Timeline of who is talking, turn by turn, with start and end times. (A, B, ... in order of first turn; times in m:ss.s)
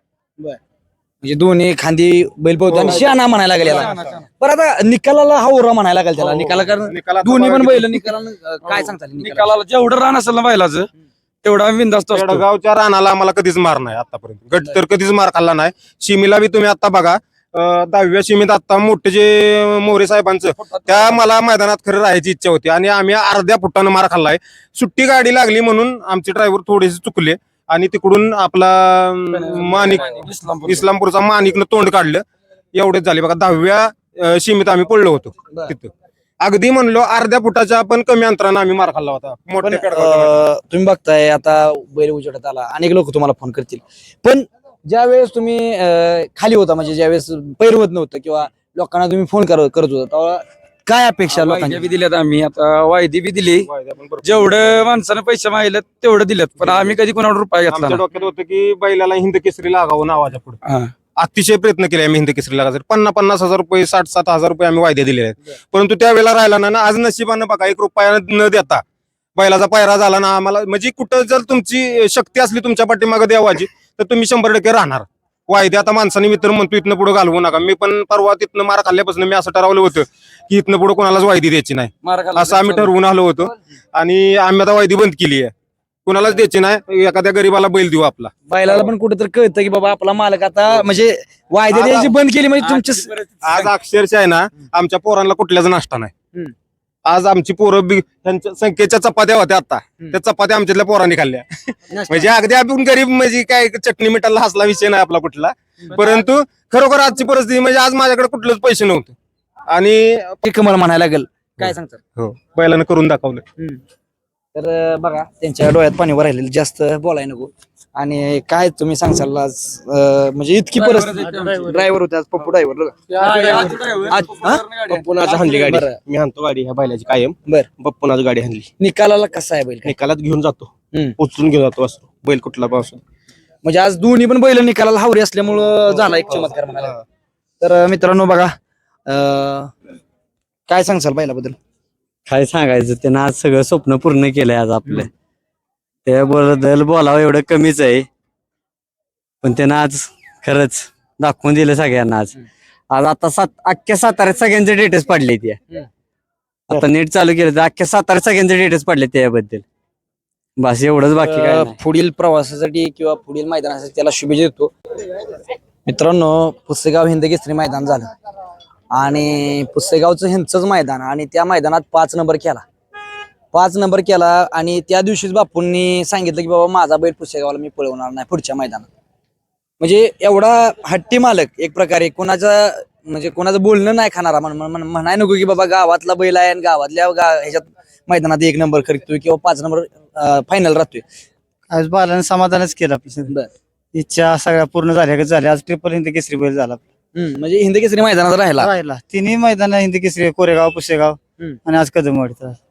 0:01.2-0:09.5 A
0:02.7-0:03.0 B
0:02.9-0:04.2 C
0:06.2-0:08.1 B
0:08.6-0:10.9 C
0:11.4-0:12.4 C
0:12.1-0:32.2 B
0:20.6-0:21.3 C
0:29.3-0:30.9 C
0:32.7-0:40.4 B
0:39.6-0:51.9 A
0:51.3-0:53.7 C
0:53.6-0:54.7 B
0:54.2-0:58.0 C
0:57.7-1:00.6 B
1:00.6-1:00.9 C
1:01.2-1:08.8 B
1:09.4-1:25.5 B
1:22.0-1:22.9 C
1:26.0-1:28.9 B
1:28.5-1:33.1 A
1:31.7-1:32.1 B
1:32.6-1:33.7 C
1:33.4-1:36.1 B
1:37.0-1:49.2 B
1:41.9-1:42.3 A
1:49.7-1:50.4 B
1:50.4-1:52.0 A
1:51.6-1:53.4 B
1:54.5-2:04.6 A
2:00.8-2:01.8 C
2:03.1-2:05.8 C
2:04.9-2:08.7 D
2:05.6-2:06.0 A
2:08.8-2:09.9 A
2:09.8-2:13.0 D
2:13.6-2:17.0 A
2:17.6-2:18.6 A
2:19.1-2:19.7 A
2:20.7-2:21.6 A
2:22.3-2:25.1 E
2:26.0-2:28.1 E
2:29.4-2:32.3 E
2:32.9-2:35.6 E
2:36.7-2:39.6 E
2:40.6-2:41.8 E
2:41.1-2:44.7 A
2:45.8-2:48.1 A
2:48.9-2:52.6 A
2:53.5-2:58.9 A
2:59.8-3:11.0 A
3:11.7-3:13.3 F
3:13.9-3:16.8 F
3:17.1-3:18.7 A
3:18.6-3:22.6 F